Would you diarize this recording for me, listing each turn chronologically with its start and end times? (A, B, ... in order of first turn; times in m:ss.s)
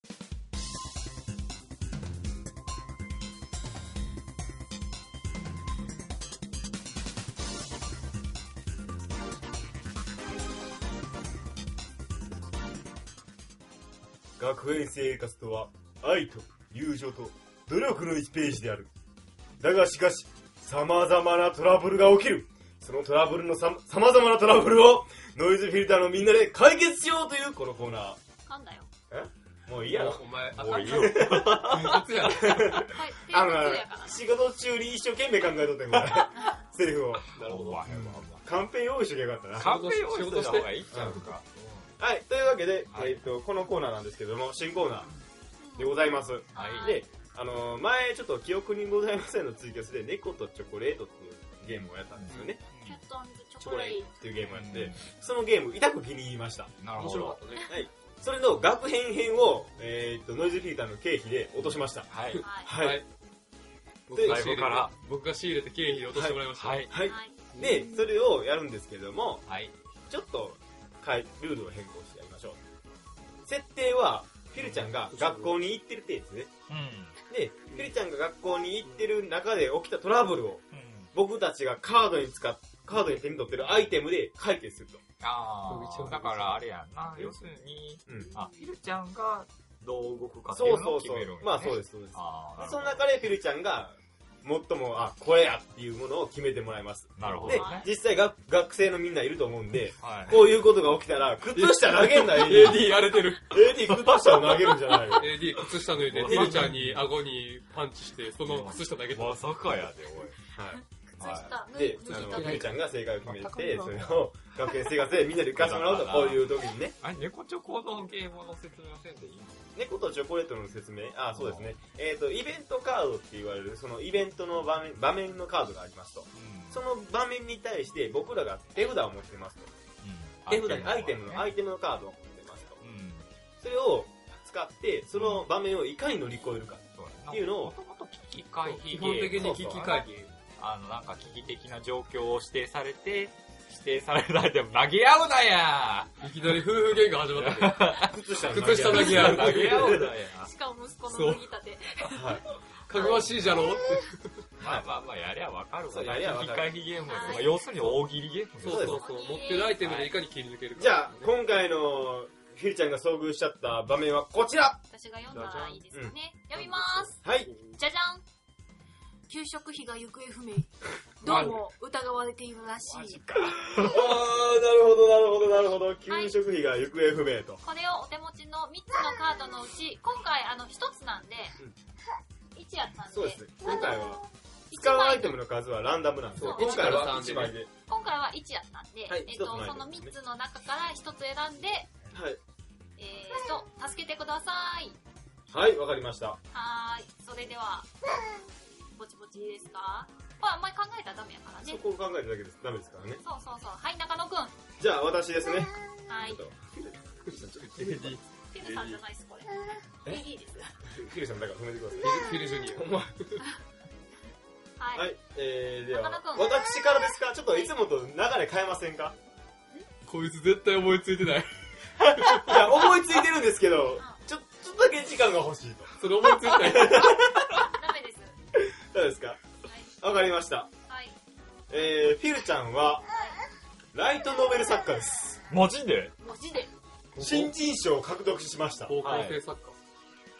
0:14.4-0:18.9 A
0:19.6-0:28.2 A
0:28.5-0:28.9 B
0:29.1-0:37.2 A
0:29.8-0:32.8 C
0:30.6-0:32.0 D
0:32.8-0:34.2 B
0:37.4-0:37.8 C
0:37.4-0:38.5 D
0:37.9-0:39.7 A
0:39.6-0:42.0 D
0:39.6-0:41.1 C
0:40.9-0:41.3 A
0:42.0-0:45.1 A
0:42.9-0:43.2 D
0:45.6-0:47.0 B
0:45.8-0:52.6 A
0:46.5-0:47.0 D
0:52.1-0:53.0 D
0:52.8-0:54.1 B
0:53.6-0:56.7 A
0:54.4-0:55.0 D
0:56.8-0:57.4 D
0:57.0-0:57.7 C
0:57.7-1:02.1 A
1:01.6-1:02.4 D
1:02.3-1:03.0 C
1:02.4-1:02.7 B
1:02.6-1:03.0 A
1:04.1-1:06.9 C
1:04.1-1:04.5 A
1:04.2-1:04.9 D
1:06.1-1:09.4 A
1:06.5-1:06.9 D
1:07.0-1:07.4 B
1:07.5-1:07.9 C
1:09.5-1:09.7 D
1:10.1-1:12.6 A
1:13.4-1:16.5 A
1:15.1-1:15.6 C
1:16.7-1:17.2 D
1:17.3-1:25.0 A
1:18.8-1:19.1 C
1:20.7-1:21.1 D
1:25.2-1:33.0 D
1:25.7-1:26.6 C
1:28.1-1:28.3 A
1:30.5-1:43.0 A
1:37.2-1:37.9 D
1:37.5-1:37.9 B
1:40.0-1:40.6 D
1:41.5-1:49.5 C
1:43.5-1:45.4 A
1:46.0-1:47.1 D
1:46.2-1:46.7 A
1:48.4-1:50.4 D
1:50.5-1:50.8 A
1:50.7-1:52.7 B
1:51.2-1:51.6 D
1:51.7-1:56.9 A
1:52.0-1:54.0 C
1:53.8-1:54.2 D
1:55.5-1:59.7 D
1:59.7-2:09.7 A
2:01.3-2:01.7 D
2:06.3-2:06.8 D
2:10.0-2:11.5 D
2:10.5-2:12.8 A
2:12.8-2:13.3 D
2:13.6-2:17.7 A
2:15.1-2:15.5 D
2:16.9-2:26.2 D
2:18.6-2:20.3 C
2:19.3-2:19.9 A
2:26.2-2:30.0 C
2:27.4-2:30.5 D
2:28.0-2:30.1 A
2:30.4-2:33.8 B
2:31.1-2:31.4 C
2:32.1-2:32.4 A
2:32.9-2:34.2 C
2:33.1-2:33.6 D
2:34.6-2:34.8 A
2:34.6-2:39.0 D
2:35.9-2:36.7 A
2:37.0-2:37.5 B
2:38.6-2:41.3 C
2:38.6-2:39.0 A
2:38.8-2:39.8 B
2:39.8-2:40.1 D
2:40.8-2:44.8 A
2:44.9-2:47.2 B
2:45.3-2:45.8 C
2:46.5-2:47.8 C
2:47.2-2:47.5 A
2:47.8-2:48.2 B
2:49.3-2:53.2 B
2:51.2-2:51.7 D
2:52.8-2:54.0 D
2:53.4-2:57.6 A
2:56.1-2:56.4 B
2:57.6-3:01.6 B
3:02.5-3:05.4 B
3:03.1-3:07.7 A
3:06.4-3:07.6 C
3:06.4-3:12.0 B
3:09.1-3:10.1 A
3:12.1-3:12.4 A
3:13.0-3:15.0 B
3:15.5-3:16.4 A
3:16.5-3:17.9 B
3:19.0-3:21.8 B
3:21.6-3:23.2 A
3:23.2-3:24.6 B
3:24.8-3:26.6 A
3:26.1-3:26.4 B
3:26.8-3:29.0 C
3:27.3-3:28.1 A
3:28.5-3:30.8 B
3:30.9-3:33.1 A
3:32.0-3:32.9 C
3:34.8-3:35.1 B
3:34.9-3:39.1 A
3:35.8-3:36.9 B
3:40.1-3:41.5 C
3:42.0-3:47.7 A
3:42.2-3:42.7 C
3:46.0-3:47.2 C
3:47.5-3:48.4 B
3:48.5-3:49.4 A
3:49.6-3:50.0 B
3:50.0-3:50.7 A
3:50.8-3:51.2 B
3:51.7-3:53.0 A
3:53.1-3:53.4 B
3:53.9-3:55.4 A
3:55.5-3:56.2 D
3:56.2-3:56.7 B
3:57.2-3:57.5 C
3:57.2-3:59.2 A
3:58.9-3:59.8 C
3:59.0-3:59.4 D